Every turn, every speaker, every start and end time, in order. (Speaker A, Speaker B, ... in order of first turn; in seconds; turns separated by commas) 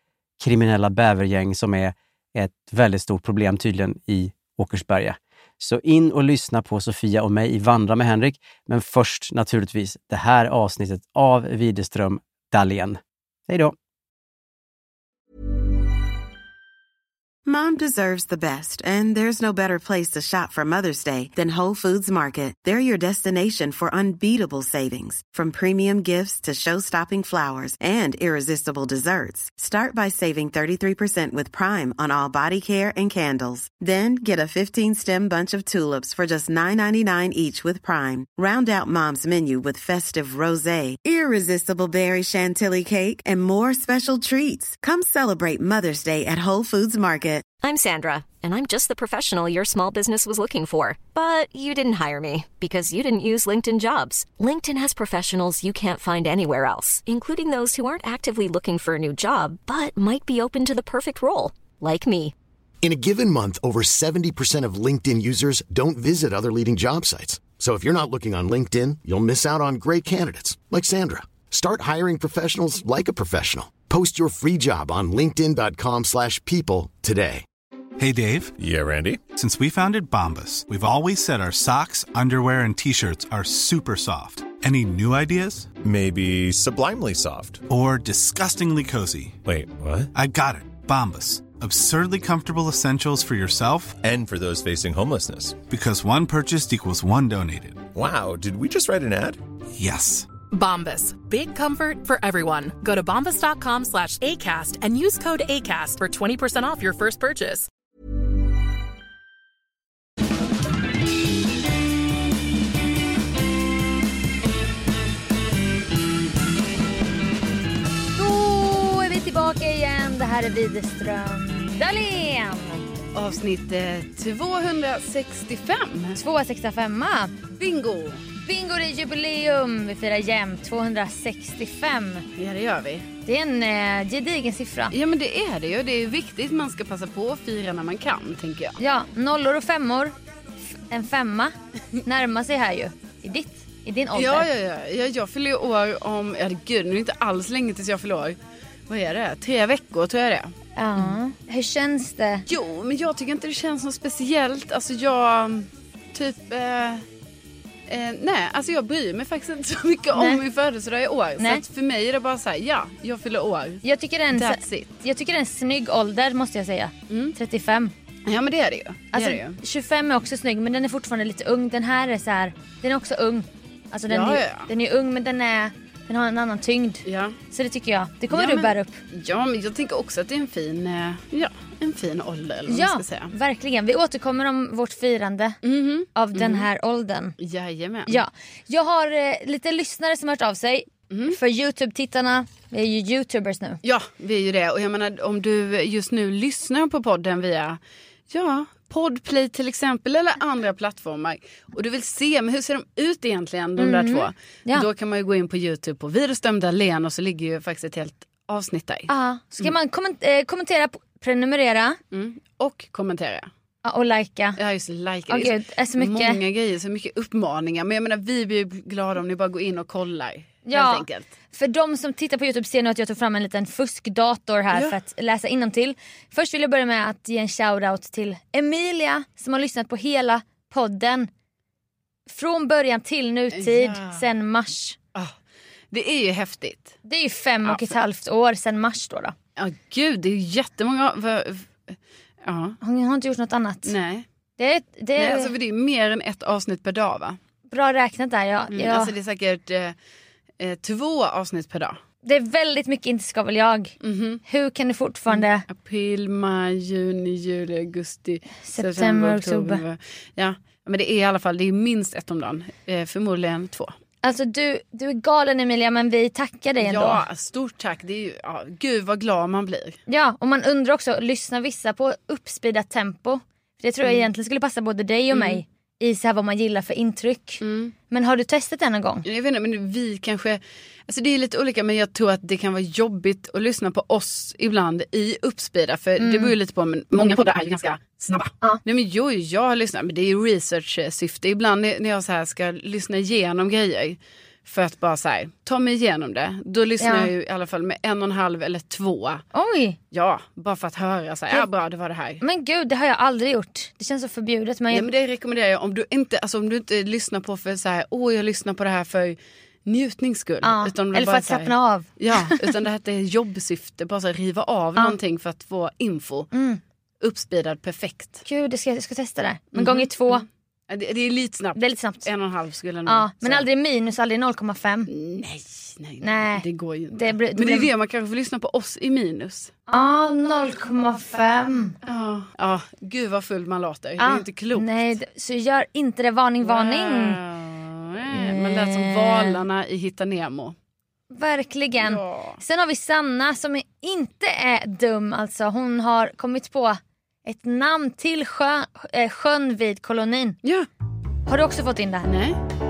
Speaker A: 0.4-13.8, Speaker B: 17.4-47.5, Speaker C: 47.6-62.3, Speaker D: 62.8-77.4, Speaker E: 78.0-78.6, Speaker F: 78.6-79.2, Speaker E: 79.3-85.7, Speaker F: 85.8-87.6, Speaker E: 87.7-89.4, Speaker F: 89.4-90.1, Speaker E: 90.1-94.0, Speaker F: 94.0-95.6, Speaker E: 95.7-97.9, Speaker F: 97.9-99.4, Speaker E: 99.8-100.3, Speaker G: 100.5-107.7, Speaker H: 118.2-122.8, Speaker I: 123.2-126.2, Speaker H: 126.2-127.3, Speaker I: 127.5-128.2, Speaker H: 128.4-132.3, Speaker I: 132.4-133.1, Speaker H: 133.3-134.9, Speaker I: 134.9-138.8, Speaker H: 138.8-140.2, Speaker H: 140.9-144.5, Speaker I: 144.1-148.4, Speaker I: 148.9-151.2, Speaker H: 150.8-152.5, Speaker I: 152.5-157.0, Speaker I: 157.9-164.9, Speaker H: 160.2-160.4, Speaker H: 163.8-167.9, Speaker I: 167.1-167.4, Speaker I: 168.3-169.6, Speaker H: 169.1-179.0, Speaker I: 174.1-174.7, Speaker I: 177.1-177.4, Speaker I: 178.3-183.3, Speaker H: 182.7-185.6, Speaker I: 185.6-186.7, Speaker H: 186.2-187.4, Speaker I: 187.4-188.2, Speaker H: 188.1-193.8, Speaker I: 191.1-191.4, Speaker I: 193.8-209.1, Speaker H: 203.8-204.9, Speaker H: 209.1-212.0, Speaker I: 212.1-213.5, Speaker H: 213.8-214.6, Speaker I: 214.6-221.3, Speaker H: 215.3-216.4, Speaker H: 220.7-231.3, Speaker I: 224.7-225.0, Speaker H: 232.3-235.0, Speaker I: 233.5-234.2, Speaker I: 235.9-237.0, Speaker H: 237.1-239.3, Speaker I: 237.7-237.9, Speaker I: 239.6-242.8, Speaker H: 242.8-243.9, Speaker I: 243.8-244.3, Speaker H: 244.6-245.5, Speaker I: 245.2-247.4, Speaker H: 247.7-249.1, Speaker I: 248.7-249.9, Speaker I: 250.6-252.0, Speaker H: 252.2-255.7, Speaker I: 254.0-254.4, Speaker I: 255.3-263.9, Speaker H: 258.7-259.8, Speaker H: 264.2-267.2, Speaker I: 266.8-270.0, Speaker H: 270.1-279.3, Speaker I: 275.3-275.6, Speaker I: 277.6-277.9, Speaker I: 279.2-299.4, Speaker H: 286.2-286.5, Speaker H: 297.0-297.3, Speaker H: 299.5-300.0, Speaker I: 300.1-302.4, Speaker H: 302.4-305.1, Speaker I: 304.9-316.5, Speaker H: 310.6-312.7, Speaker H: 316.5-316.8, Speaker I: 317.2-318.4, Speaker H: 318.4-320.4, Speaker I: 319.7-323.7, Speaker H: 321.8-322.3, Speaker H: 323.1-325.1, Speaker I: 325.1-329.8, Speaker H: 326.2-327.9, Speaker H: 329.9-332.0, Speaker I: 332.1-335.1, Speaker H: 334.2-337.4, Speaker I: 336.6-340.8, Speaker H: 338.3-339.6, Speaker H: 341.3-350.6, Speaker I: 342.0-342.6, Speaker H: 351.5-352.3, Speaker I: 352.2-352.6